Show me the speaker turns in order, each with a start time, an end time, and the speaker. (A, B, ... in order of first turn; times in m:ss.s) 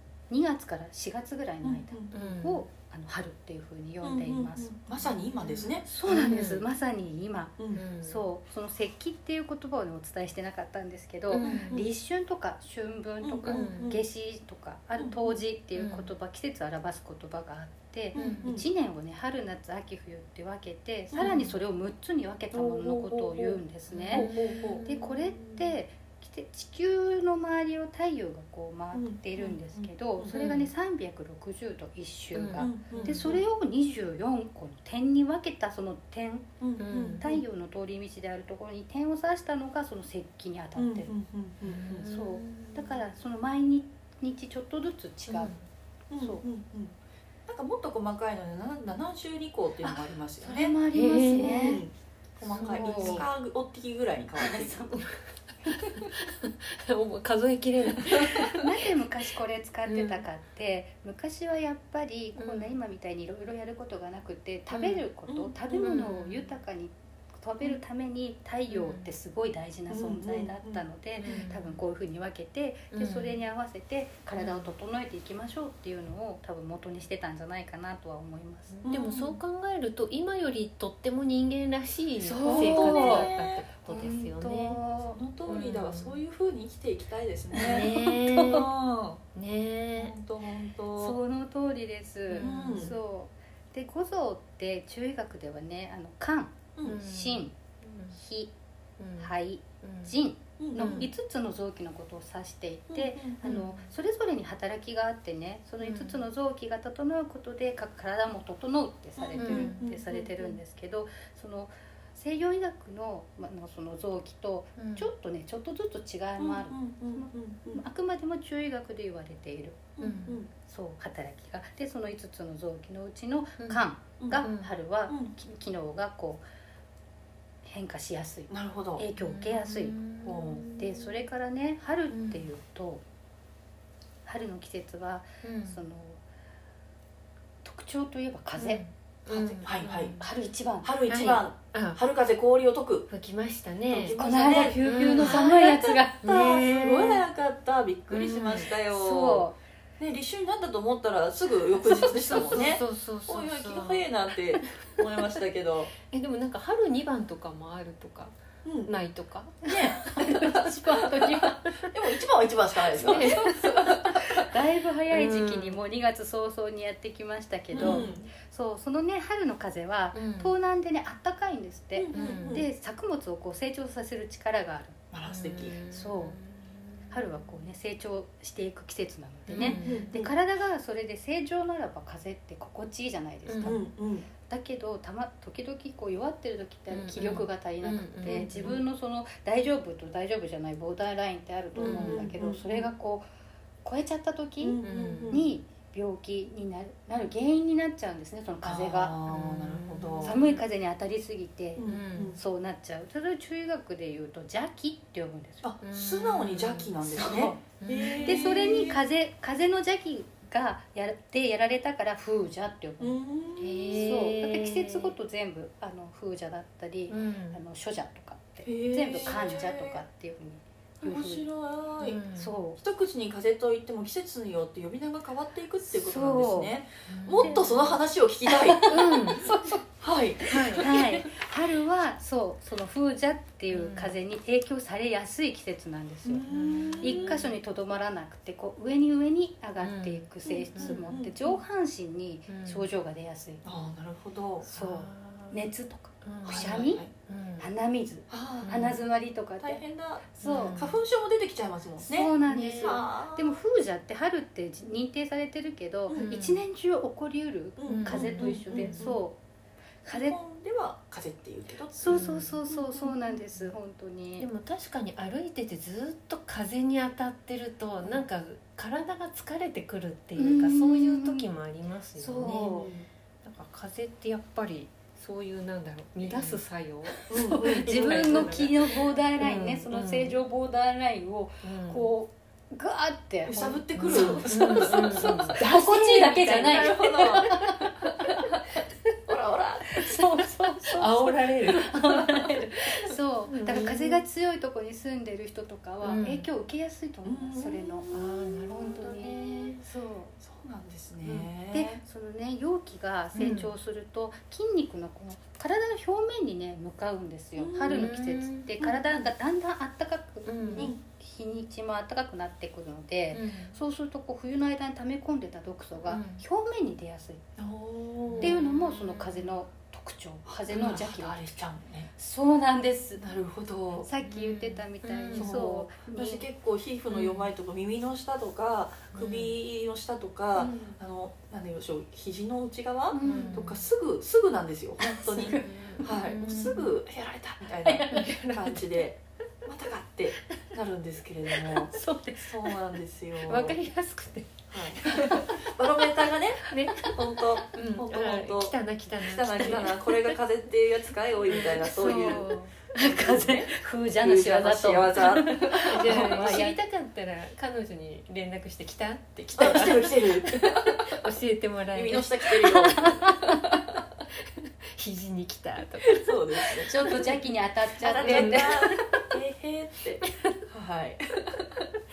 0:00.3-0:04.8 A
0:01.6-0:02.1 B
0:02.1-0:02.6 C
0:04.0-0:05.9 B
0:05.4-0:06.6 C
0:05.8-0:24.3 A
0:07.6-0:07.8 B
0:07.7-0:08.2 C
0:11.3-0:11.9 C
0:11.4-0:11.8 B
0:13.2-0:14.0 B
0:13.5-0:14.0 C
0:15.0-0:15.3 B
0:15.8-0:16.1 C
0:18.1-0:18.5 C
0:18.1-0:18.6 B
0:21.1-0:21.5 B
0:21.2-0:21.6 C
0:22.5-0:23.6 B
0:23.9-0:25.8 C
0:24.1-0:24.8 B
0:24.8-0:36.6 A
0:28.9-0:30.3 B
0:30.3-0:30.7 C
0:32.3-0:33.4 C
0:32.6-0:33.4 B
0:36.6-0:37.4 B
0:36.8-0:37.2 C
0:37.2-0:41.1 A
0:40.8-0:42.1 B
0:41.6-0:43.0 C
0:42.0-0:45.5 A
0:45.3-0:45.6 C
0:46.1-0:46.9 B
0:46.2-0:46.4 A
0:47.5-0:54.9 B
0:49.8-0:51.8 A
0:50.9-0:51.8 C
0:52.5-0:53.3 C
0:52.6-0:53.2 A
0:54.4-0:55.0 A
0:55.7-0:56.1 B
0:55.9-0:58.9 C
0:58.0-0:58.5 B
0:58.5-1:18.8 A
0:59.9-1:00.2 C
1:02.4-1:02.8 C
1:04.7-1:05.0 C
1:05.3-1:06.0 B
1:05.8-1:06.5 C
1:08.7-1:09.1 C
1:09.9-1:10.8 B
1:11.2-1:11.8 C
1:12.9-1:13.3 C
1:14.4-1:14.7 C
1:18.7-1:24.8 C
1:18.8-1:19.4 B
1:22.2-1:23.3 A
1:22.4-1:24.3 B
1:24.3-1:25.2 A
1:25.0-1:29.2 B
1:25.5-1:26.2 C
1:27.5-1:28.6 A
1:27.6-1:28.7 C
1:29.3-1:30.2 C
1:30.0-1:31.2 B
1:31.0-1:37.5 A
1:32.3-1:32.9 C
1:32.4-1:32.9 B
1:36.8-1:38.2 C
1:38.1-1:38.5 A
1:39.0-1:40.2 C
1:39.2-1:59.9 A
1:40.6-1:41.1 B
1:40.8-1:41.1 C
1:42.9-1:43.5 B
1:43.4-1:43.9 C
1:45.8-1:46.2 C
1:49.2-1:50.6 B
1:49.4-1:49.8 C
1:54.8-1:55.1 C
1:56.4-1:57.8 B
2:00.0-2:00.5 B
2:00.0-2:00.4 C
2:00.6-2:06.4 A
2:04.4-2:04.7 C
2:05.1-2:05.3 B
2:07.6-2:10.0 A
2:08.5-2:09.0 B
2:09.2-2:11.2 C
2:10.2-2:10.6 B
2:10.7-2:13.0 A
2:12.1-2:12.5 C
2:14.2-2:16.2 A
2:15.4-2:15.8 C
2:17.6-2:18.8 A
2:18.6-2:20.3 C
2:19.3-2:20.2 B
2:20.2-2:21.0 A
2:20.8-2:23.1 B
2:21.1-2:22.0 C
2:23.1-2:24.2 C
2:23.9-2:29.5 B
2:24.1-2:26.6 A
2:24.8-2:25.5 C
2:26.2-2:27.2 C
2:28.1-2:28.7 C
2:28.9-2:29.6 A
2:30.0-2:35.9 B
2:31.9-2:34.0 C
2:36.1-2:40.3 C
2:38.6-2:38.9 B
2:39.6-2:44.4 B
2:39.7-2:41.6 A
2:42.9-2:43.8 C
2:43.0-2:55.0 A
2:45.1-2:45.8 C
2:47.7-2:48.3 B
2:47.7-2:48.1 C
2:50.1-2:50.5 C
2:52.0-2:52.7 B
2:52.1-2:52.6 C
2:55.1-2:55.8 B
2:55.2-2:57.5 C
2:55.9-2:56.4 A
2:57.1-3:03.9 A
2:59.5-3:00.3 C
2:59.5-3:00.3 B
3:03.4-3:03.8 C
3:03.6-3:04.3 B
3:04.4-3:13.3 A
3:06.9-3:08.8 C
3:08.2-3:08.8 B
3:11.8-3:12.8 B
3:11.8-3:12.3 C
3:13.8-3:19.2 A
3:14.6-3:15.5 B
3:14.8-3:15.4 C
3:18.6-3:20.4 B
3:19.3-3:20.6 C
3:20.2-3:25.7 A
3:21.8-3:22.4 B
3:21.8-3:22.4 C
3:25.6-3:29.0 B
3:25.8-3:27.0 C
3:27.1-3:27.6 A
3:27.8-3:28.8 C
3:28.2-3:33.2 A
3:33.0-3:34.2 B
3:33.6-3:35.1 C
3:33.9-3:41.5 A
3:37.1-3:37.6 C
3:38.6-3:40.0 B
3:41.0-3:42.2 B
3:42.0-3:42.5 C
3:42.3-3:42.8 A
3:42.8-3:51.3 B
3:45.8-3:46.7 A
3:47.1-3:48.0 C
3:47.4-3:47.8 A
3:48.5-3:49.8 A
3:48.9-3:49.5 C
3:50.4-3:50.9 C
3:50.5-3:56.5 A
3:53.7-3:54.2 C
3:56.2-3:57.4 B
3:56.5-3:57.5 C
3:57.0-4:03.6 A
3:59.8-4:01.2 C
4:00.4-4:01.6 B
4:02.5-4:02.9 C
4:03.6-4:04.7 B
4:04.6-4:07.1 A
4:04.7-4:05.7 C
4:06.2-4:07.7 C
4:06.4-4:07.1 B
4:07.6-4:10.8 A
4:08.3-4:08.9 B
4:08.6-4:09.0 C
4:09.6-4:13.6 B
4:10.4-4:11.0 C
4:12.0-4:19.4 A
4:12.5-4:13.0 C
4:16.1-4:16.3 B
4:16.1-4:16.6 C
4:17.8-4:19.2 B
4:17.8-4:19.1 C
4:20.0-4:20.4 A
4:20.1-4:22.3 B
4:21.9-4:24.5 A
4:22.1-4:22.6 C
4:24.4-4:40.3 C
4:30.4-4:31.4 A
4:32.2-4:32.9 A
4:32.5-4:33.0 B
4:36.3-4:36.6 A
4:37.1-4:48.5 A
4:37.3-4:38.5 B
4:41.6-4:42.1 C
4:43.4-4:45.6 B
4:44.0-4:47.0 C
4:46.4-4:48.6 B
4:49.3-4:50.4 B
4:49.9-4:58.1 A
4:50.9-4:52.3 C
4:53.5-4:54.2 C
4:56.0-4:56.4 C
4:57.2-4:58.7 B
4:58.1-4:59.8 C
4:58.7-5:00.3 A
5:00.4-5:02.0 B
5:01.7-5:17.5 A
5:03.3-5:03.7 C
5:07.6-5:08.1 B
5:07.9-5:08.7 C
5:10.4-5:10.9 C
5:10.8-5:11.0 B
5:13.3-5:13.8 C
5:16.1-5:16.4 C
5:17.6-5:18.6 B
5:18.2-5:19.5 C
5:18.4-5:21.6 A
5:20.6-5:22.1 B
5:20.7-5:21.0 C
5:22.2-5:23.3 A
5:23.2-5:24.1 B
5:24.0-5:26.5 A
5:24.2-5:25.6 C
5:25.3-5:43.8 B
5:27.1-5:27.5 C
5:29.1-5:29.5 C
5:30.6-5:31.0 A
5:33.1-5:33.7 A
5:33.2-5:33.8 C
5:35.0-5:35.8 A
5:35.4-5:36.9 C
5:37.8-5:38.3 A
5:38.1-5:38.8 C
5:41.9-5:42.7 A
5:43.4-5:45.4 C
5:44.7-5:56.6 B
5:45.0-5:45.6 A
5:46.7-5:47.2 C
5:47.7-5:50.4 C
5:51.5-5:52.4 C
5:51.8-5:56.8 A
5:55.8-6:03.3 C
5:59.6-6:01.2 B
6:01.9-6:04.0 B
6:02.7-6:03.6 A
6:04.6-6:07.3 C
6:06.1-6:07.3 B
6:06.8-6:08.9 A
6:08.0-6:11.9 B
6:08.2-6:09.2 C